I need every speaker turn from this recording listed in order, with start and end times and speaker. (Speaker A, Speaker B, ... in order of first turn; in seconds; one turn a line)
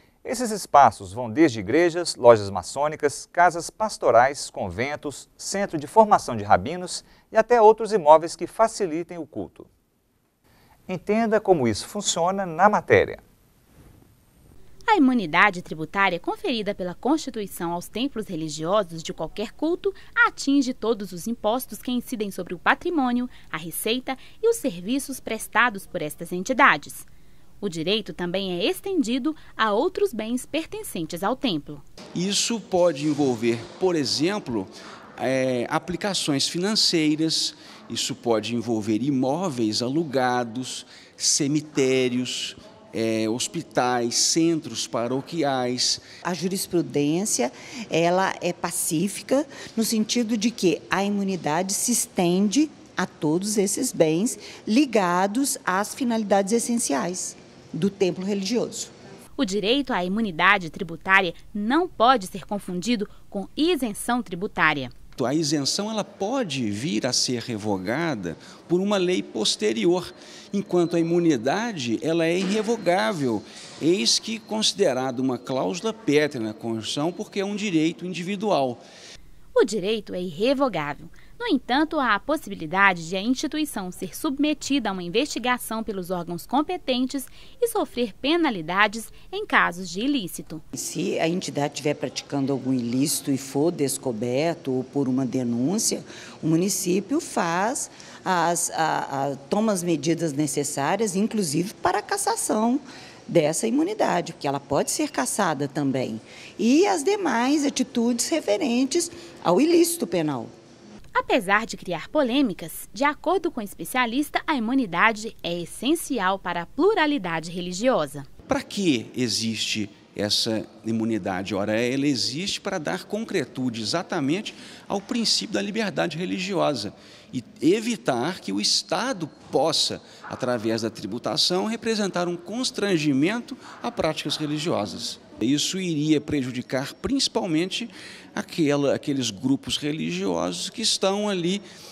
Speaker A: 0.2-9.7
Speaker A: 10.9-13.2
Speaker B: 14.9-27.1
Speaker B: 27.6-31.8
Speaker C: 32.1-46.0
Speaker D: 46.2-58.9
Speaker B: 59.4-64.9
Speaker C: 65.2-78.8
Speaker B: 79.5-90.6
Speaker D: 90.7-110.5
Speaker B: 111.1-118.3
Speaker C: 118.5-141.6